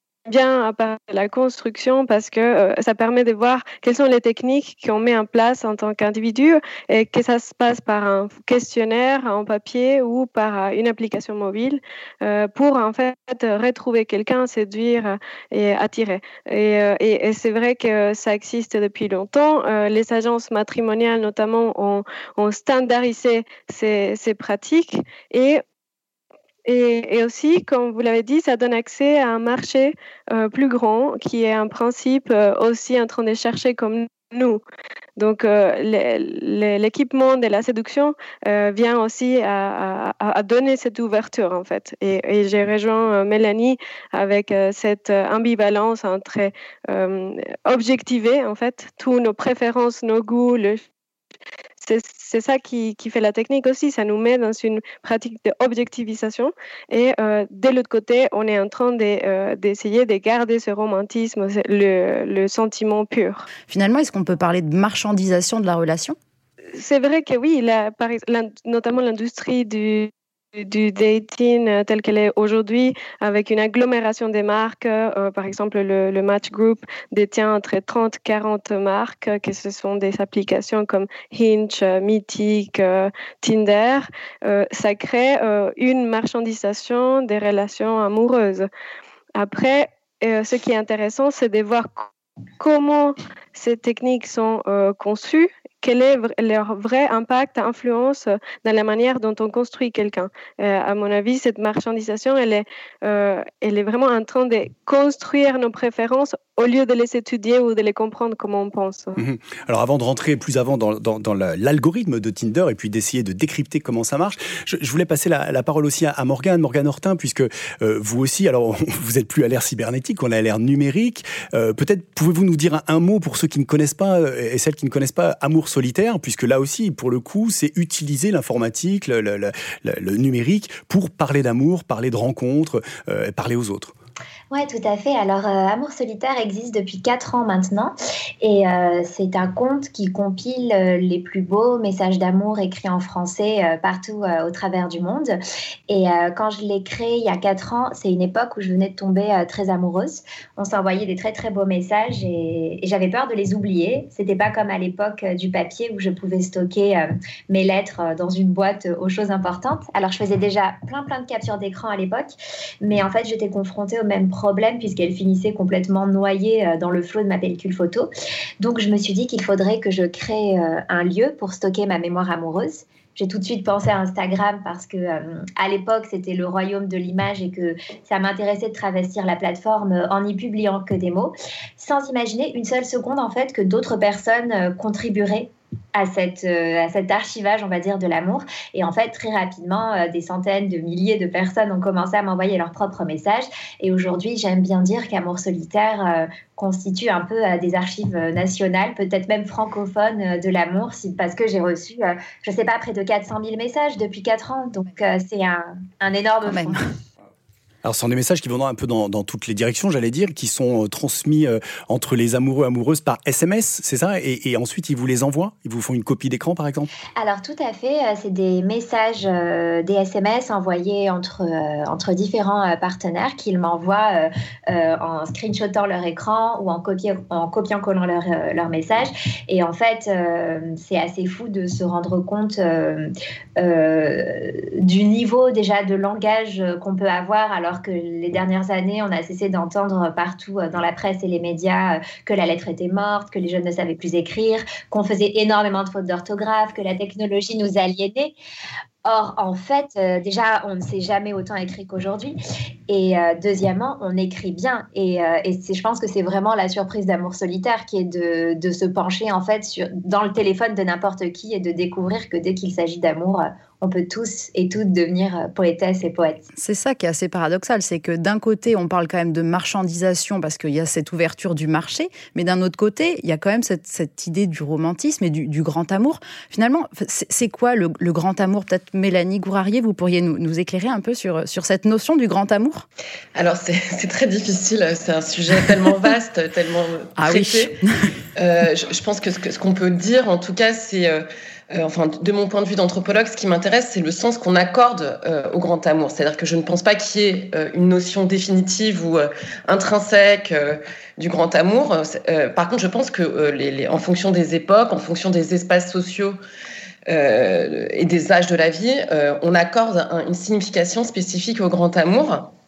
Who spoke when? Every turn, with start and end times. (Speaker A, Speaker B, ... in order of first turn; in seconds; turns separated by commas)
Speaker A: 0.3-25.6, Speaker A: 26.6-34.6, Speaker A: 35.2-50.8, Speaker A: 51.8-63.5, Speaker B: 63.7-66.2, Speaker A: 66.7-88.7, Speaker A: 89.3-109.2, Speaker C: 109.2-133.9, Speaker D: 134.5-145.3, Speaker D: 145.9-168.1, Speaker D: 168.6-206.8, Speaker B: 206.4-206.8, Speaker C: 207.8-216.9, Speaker D: 217.2-248.3, Speaker D: 249.0-252.3, Speaker D: 252.9-266.4, Speaker B: 266.6-282.9, Speaker E: 283.4-287.8, Speaker B: 287.2-288.1, Speaker E: 288.4-306.4, Speaker E: 307.1-312.5